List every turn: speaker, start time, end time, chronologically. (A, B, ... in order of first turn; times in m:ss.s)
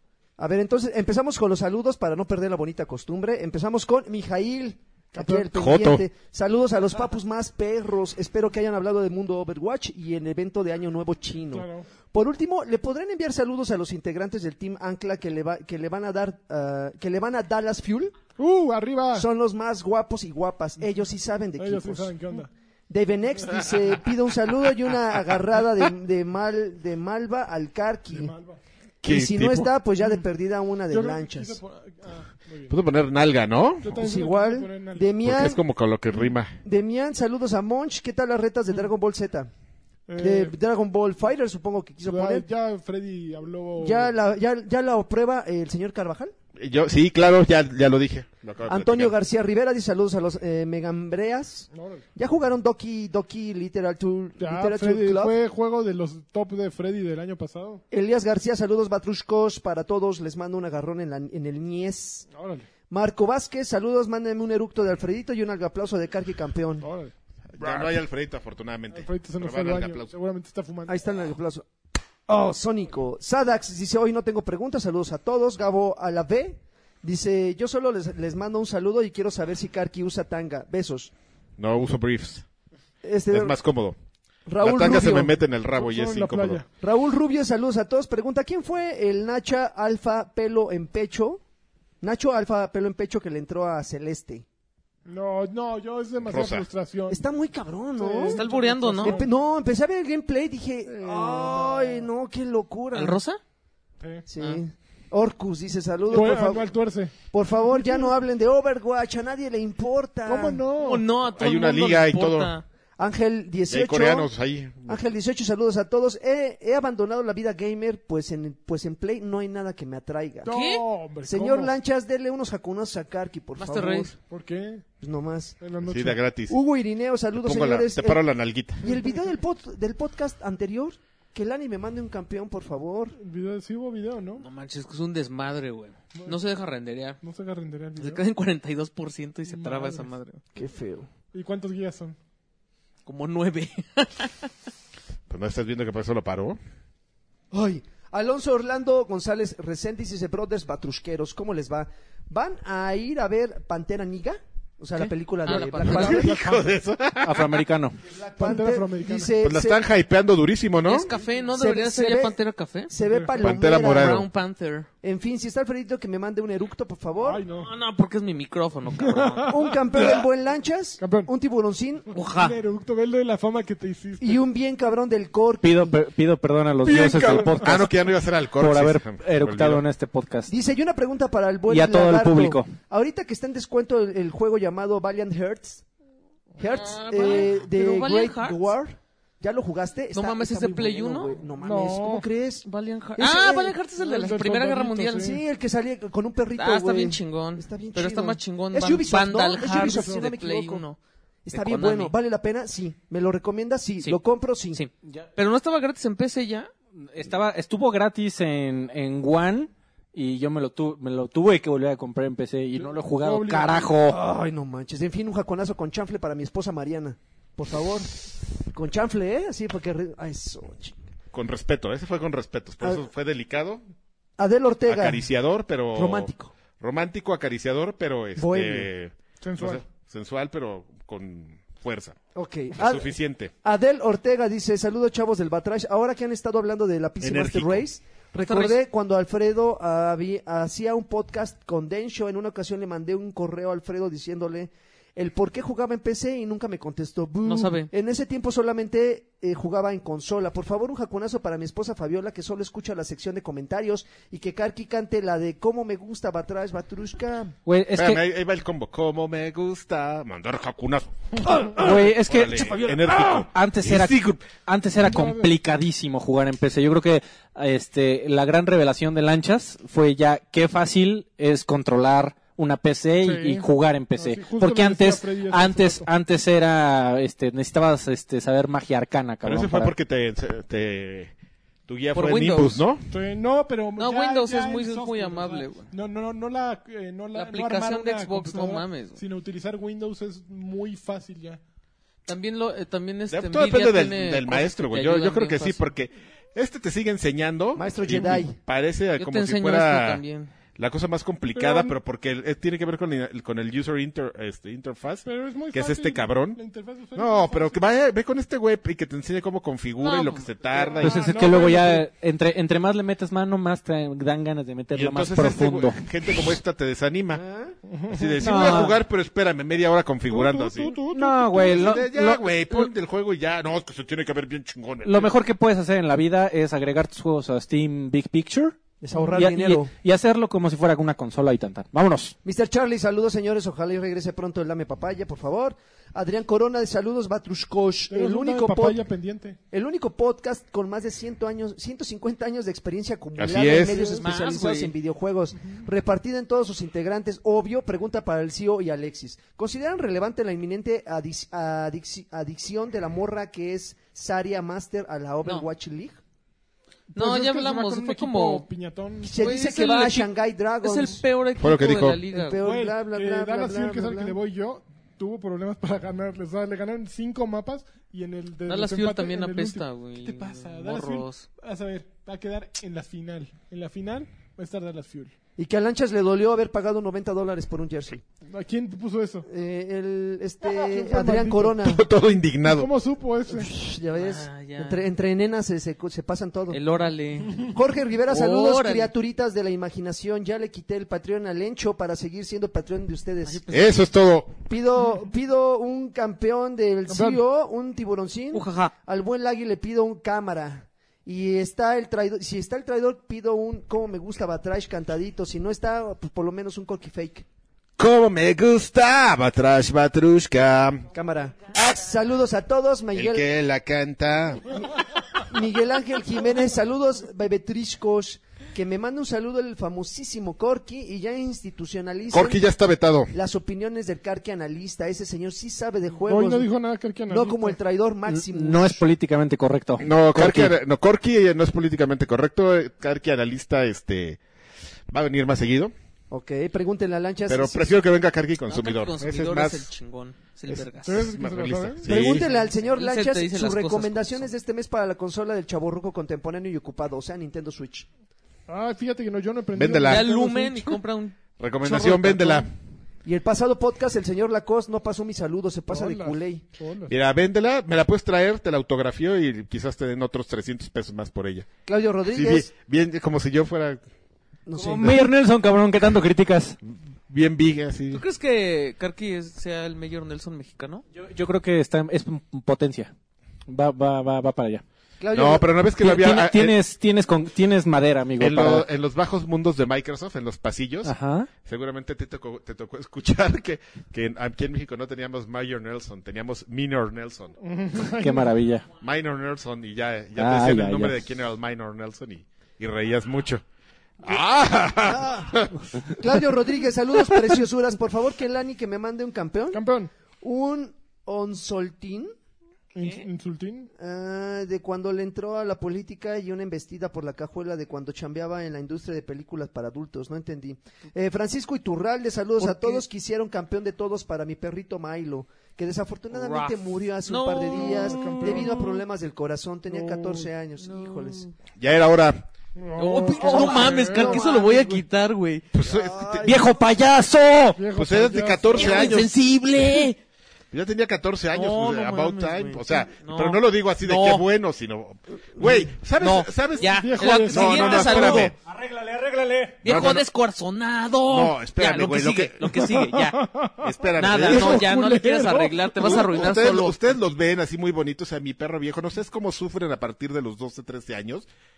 0:00.4-0:18.2 A
0:05.1-0:05.5 B
0:05.5-0:06.0 C
0:11.5-0:11.9 B
0:18.4-0:19.3 B
0:19.1-0:22.1 A
0:21.6-0:22.5 B
0:22.9-0:28.3 A
0:28.1-0:28.6 B
0:29.0-0:31.6 A
0:29.0-0:29.7 C
0:30.9-0:32.7 B
0:32.7-0:33.9 C
0:33.8-0:35.2 B
0:33.9-0:35.6 A
0:35.2-0:36.6 C
0:36.6-0:39.5 A
0:40.1-0:40.5 B
0:40.2-0:42.4 A
0:42.0-0:44.1 B
0:43.8-0:46.3 A
0:46.6-0:49.1 C
0:48.7-0:55.3 A
0:51.7-0:52.0 B
0:54.4-0:57.8 B
0:57.9-1:02.3 A
1:02.3-1:02.7 B
1:02.9-1:06.8 A
1:06.8-1:08.0 B
1:07.6-1:10.1 C
1:08.9-1:11.0 B
1:10.9-1:11.7 A
1:12.3-1:21.1 A
1:21.6-1:22.4 C
1:23.0-1:23.6 A
1:23.3-1:24.0 C
1:24.5-1:25.4 A
1:24.6-1:26.6 C
1:25.8-1:26.6 B
1:26.8-1:31.4 A
1:32.0-1:34.4 A
1:35.0-1:37.2 B
1:36.2-1:36.7 C
1:37.1-1:38.4 A
1:38.0-1:39.3 B
1:38.3-1:39.2 D
1:39.0-1:43.2 A
1:41.0-1:42.0 B
1:42.9-1:43.4 D
1:44.0-1:44.3 B
1:44.3-1:46.7 A
1:46.1-1:47.1 B
1:47.3-1:50.6 A
1:50.2-1:51.1 B
1:50.8-1:52.6 D
1:51.3-1:52.5 C
1:53.0-1:54.3 A
1:53.7-1:55.0 C
1:54.8-2:00.5 A
2:00.4-2:01.7 B
2:00.5-2:00.8 D
2:01.2-2:04.2 A
2:03.6-2:04.1 D
2:04.3-2:04.8 B
2:05.0-2:05.6 A
2:05.6-2:06.2 B
2:05.8-2:06.6 C
2:06.5-2:08.2 A
2:07.3-2:08.9 C
2:08.8-2:13.1 A
2:13.2-2:14.4 B
2:14.4-2:17.2 D
2:17.2-2:18.2 B
2:18.0-2:20.4 D
2:19.5-2:20.1 B
2:20.5-2:21.1 A
2:21.3-2:22.2 B
2:23.0-2:24.5 D
2:25.3-2:26.6 C
2:27.5-2:36.6 A
2:35.4-2:36.3 D
2:35.8-2:37.6 C
2:36.0-2:36.6 B
2:37.2-2:38.0 E
2:38.0-2:39.8 A
2:38.4-2:39.3 B
2:39.4-2:41.1 C
2:40.8-2:42.9 D
2:40.9-2:42.4 A
2:42.9-2:44.3 A
2:43.1-2:43.4 B
2:43.4-2:44.3 C
2:43.7-2:44.9 D
2:45.0-2:47.4 A
2:47.2-2:47.7 B
2:47.5-2:49.6 D
2:49.0-2:50.2 B
2:49.5-2:52.1 A
2:51.0-2:51.3 B
2:52.1-2:52.6 D
2:52.2-2:54.4 B
2:54.2-2:56.0 A
2:55.6-2:57.9 E
2:56.8-2:57.8 B
2:57.2-2:59.8 C
2:58.5-3:00.5 E
3:00.5-3:05.8 A
3:01.7-3:02.7 E
3:06.6-3:13.8 A
3:06.6-3:08.7 D
3:10.1-3:11.3 D
3:11.6-3:12.2 B
3:12.6-3:15.4 D
3:14.0-3:15.4 B
3:15.2-3:20.8 A
3:16.6-3:21.0 D
3:19.7-3:20.3 B
3:21.4-3:24.8 A
3:21.5-3:22.1 D
3:24.7-3:26.7 D
3:27.0-3:34.2 E
3:32.8-3:33.9 B
3:34.0-3:41.0 A
3:41.3-3:43.8 C
3:44.4-3:45.2 A
3:44.9-3:52.2 C
3:45.9-3:46.5 A
3:48.4-3:48.9 A
3:49.4-3:49.8 B
3:52.3-4:17.5 A
3:52.8-3:53.5 C
3:57.2-3:57.8 C
3:58.5-3:58.8 D
4:07.4-4:07.9 D
4:17.6-4:18.2 E
4:18.0-4:24.4 C
4:21.6-4:39.9 E
4:25.0-4:25.5 B
4:33.2-4:33.6 B
4:34.2-4:36.1 B
4:39.4-4:41.3 C
4:41.9-4:43.1 C
4:42.1-4:42.8 D
4:43.1-4:51.6 B
4:44.0-4:45.9 D
4:47.3-4:49.2 D
4:52.2-4:55.9 D
4:53.3-5:00.2 C
4:57.8-4:58.6 A
4:59.2-5:00.5 D
5:00.8-5:06.6 C
5:01.5-5:02.0 B
5:05.2-5:07.8 B
5:07.2-5:11.2 C
5:10.0-5:10.9 D
5:10.9-5:12.1 B
5:11.0-5:16.4 E
5:14.9-5:17.4 C
5:17.3-5:17.8 A
5:17.9-5:18.9 B
5:18.1-5:21.0 C
5:18.4-5:19.0 E
5:20.3-5:22.0 B
5:21.1-5:22.9 E
5:21.5-5:25.3 C
5:25.0-5:28.8 E
5:29.0-5:29.9 A
5:29.3-5:32.4 E
5:32.4-5:39.0 A
5:38.1-5:39.6 B
5:39.7-5:56.2 A
5:43.4-5:44.0 C
5:43.9-5:44.9 D
5:57.1-5:59.3 B
5:57.1-5:58.7 D
5:59.2-6:01.2 A
5:59.2-6:00.3 D
6:00.8-6:02.6 D
6:01.6-6:02.2 C
6:02.3-6:04.4 A
6:02.5-6:15.3 B
6:08.7-6:11.4 D
6:15.6-6:18.2 A
6:18.4-6:19.5 B
6:19.4-6:22.0 A
6:20.7-6:21.8 B
6:21.8-6:22.9 C
6:22.6-6:23.7 B
6:23.5-6:26.8 A
6:24.1-6:25.0 D
6:26.7-6:27.7 D
6:27.6-6:33.6 A
6:28.3-6:29.1 D
6:33.4-6:34.1 D
6:33.7-6:34.6 C
6:34.7-6:47.4 A
6:37.1-6:37.4 B
6:38.5-6:38.9 D
6:48.0-6:51.0 C
6:51.1-6:53.5 A
6:53.1-6:54.8 C
6:55.3-7:02.6 A
7:02.3-7:03.3 C
7:03.3-7:06.7 A
7:06.3-7:07.8 B
7:07.3-7:09.0 A
7:08.3-7:10.7 E
7:10.0-7:14.4 C
7:15.1-7:15.9 C
7:16.3-7:18.0 A
7:17.5-7:19.9 C
7:18.7-7:21.3 D
7:20.7-7:22.5 C
7:21.0-7:22.5 B
7:22.0-7:28.1 A
7:22.7-7:24.5 D
7:28.7-7:31.0 B
7:29.7-7:30.2 C
7:30.0-7:32.7 D
7:31.6-7:32.7 C
7:33.2-7:36.6 A
7:35.9-7:37.1 B
7:37.1-7:41.7 C
7:41.8-7:42.7 A
7:42.3-7:44.0 C
7:44.6-7:45.2 A
7:44.8-7:46.8 E
7:46.9-7:48.2 C
7:48.1-7:51.0 D
7:51.1-7:53.1 E
7:53.7-7:54.8 E
7:55.2-7:55.7 A
7:55.3-7:56.8 C
7:56.0-7:58.9 E
7:58.4-8:01.1 C
8:01.0-8:01.5 E
8:01.6-8:07.6 C
8:07.6-8:08.5 B
8:08.0-8:08.8 E
8:09.0-8:13.6 C
8:10.4-8:11.2 E
8:14.2-8:15.9 C
8:15.0-8:19.8 A
8:19.7-8:20.1 B
8:20.4-8:22.3 A
8:22.9-8:23.9 B
8:24.0-8:41.4 A
8:32.6-8:33.0 D
8:36.3-8:38.6 D
8:37.8-8:38.9 B
8:39.9-8:40.5 B
8:40.8-8:41.5 D
8:41.8-8:42.4 C
8:42.8-8:44.5 B
8:43.0-8:45.6 D
8:43.3-8:45.0 A
8:43.4-8:43.9 E
8:45.7-8:46.3 C
8:45.8-8:46.7 A
8:46.4-8:47.8 E
8:47.7-8:49.3 B
8:47.9-8:49.3 C
8:48.7-8:50.2 D
8:49.0-8:50.1 E
8:50.7-8:58.5 C
8:51.5-8:54.5 D
8:55.6-8:55.9 A
8:56.2-8:58.5 D
8:56.8-8:59.1 B
8:58.7-8:59.8 E
8:59.8-9:03.4 D
8:59.8-9:00.2 C
9:01.3-9:02.8 C
9:02.8-9:06.5 B
9:03.8-9:04.9 C
9:04.2-9:07.0 D
9:06.0-9:11.5 C